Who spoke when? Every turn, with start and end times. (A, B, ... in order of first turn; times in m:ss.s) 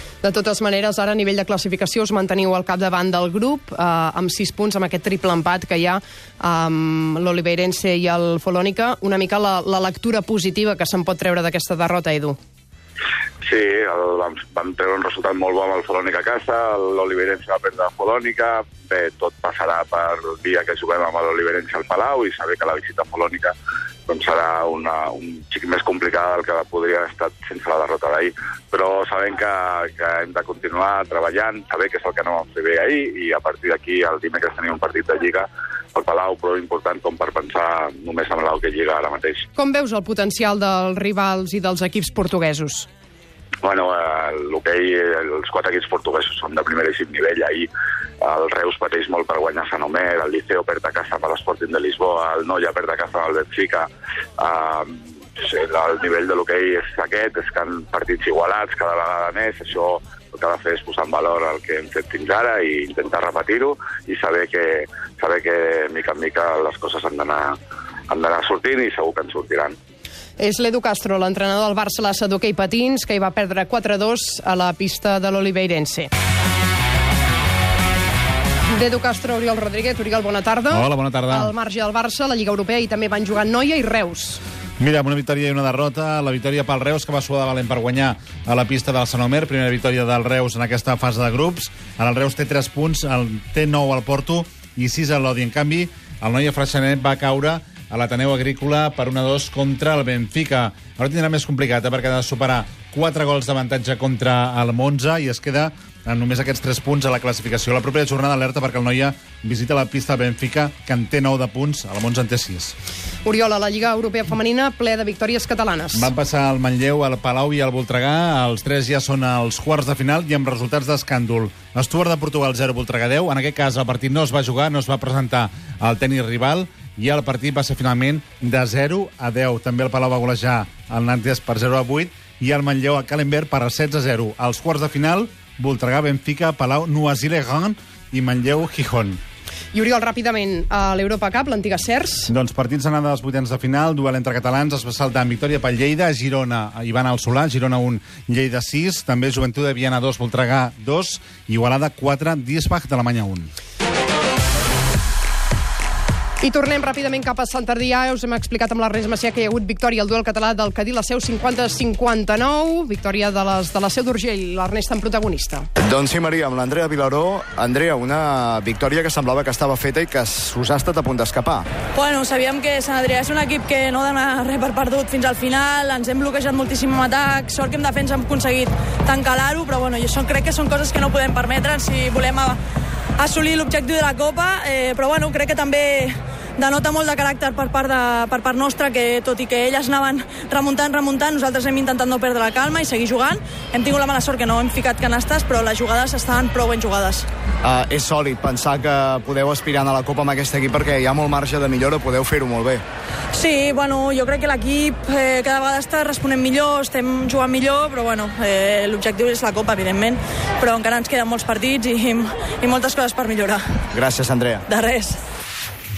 0:00.2-0:12.4 A
0:13.5-0:23.5 B
0:24.1-0:39.5 B
0:39.6-0:42.9 A
0:43.6-0:47.7 B
0:48.2-0:53.9 B
0:54.4-1:07.6 B
1:08.1-1:09.8 B
1:10.4-1:16.1 A
1:18.7-1:24.4 A
1:20.7-1:21.5 C
1:24.8-1:52.7 C
1:53.2-1:56.1 A
1:55.9-2:19.2 C
2:19.7-2:22.3 A
2:22.3-2:33.5 C
2:36.4-2:45.7 A
2:45.8-2:51.7 D
2:52.0-3:02.6 E
3:03.2-3:17.3 E
3:17.6-3:22.8 D
3:23.3-3:33.6 E
3:33.9-3:34.6 D
3:34.7-3:35.2 E